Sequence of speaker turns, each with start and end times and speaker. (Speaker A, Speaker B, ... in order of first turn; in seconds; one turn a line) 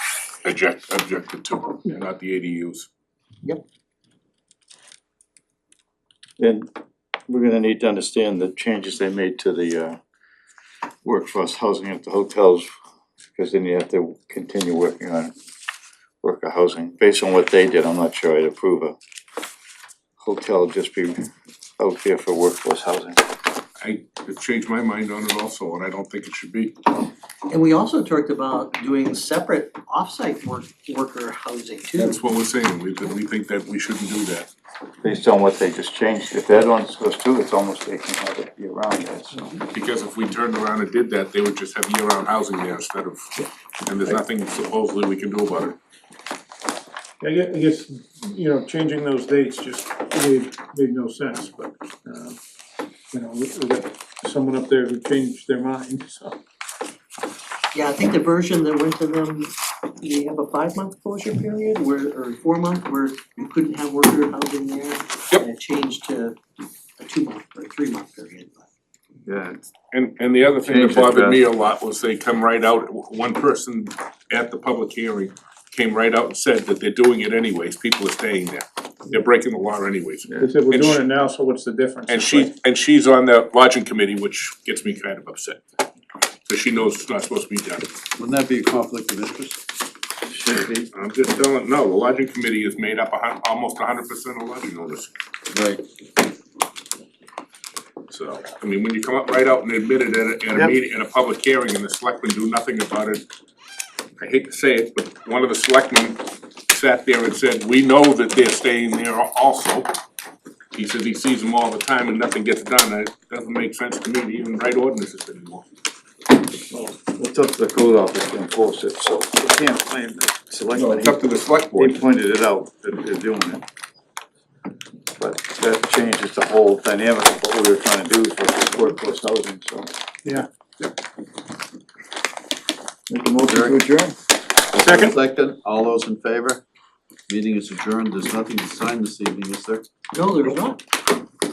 Speaker A: 0.4-2.9
Speaker B: 6.4-6.7
Speaker B: 7.3-10.0
Speaker B: 11.0-12.7
Speaker B: 13.3-15.3
Speaker B: 16.2-18.9
Speaker B: 20.2-21.2
Speaker B: 21.8-23.2
Speaker A: 23.8-26.8
Speaker C: 27.5-32.2
Speaker A: 31.9-34.5
Speaker B: 35.0-39.6
Speaker A: 39.7-43.3
Speaker A: 43.9-45.8
Speaker D: 47.2-52.4
Speaker D: 53.1-56.4
Speaker C: 57.7-66.4
Speaker C: 67.0-68.7
Speaker B: 69.2-69.6
Speaker A: 69.9-81.0
Speaker B: 70.6-71.4
Speaker D: 80.4-82.5
Speaker A: 82.1-85.6
Speaker A: 86.5-87.9
Speaker E: 88.2-89.6
Speaker B: 90.2-90.9
Speaker A: 90.9-95.1
Speaker E: 95.5-95.8
Speaker A: 98.1-103.2
Speaker A: 104.2-109.9
Speaker A: 110.7-115.7
Speaker B: 116.7-123.6
Speaker A: 120.7-122.0
Speaker B: 125.2-129.9
Speaker B: 133.1-134.2
Speaker E: 133.5-133.8
Speaker E: 134.7-136.6
Speaker D: 134.8-135.2
Speaker E: 137.3-139.9
Speaker C: 140.1-140.8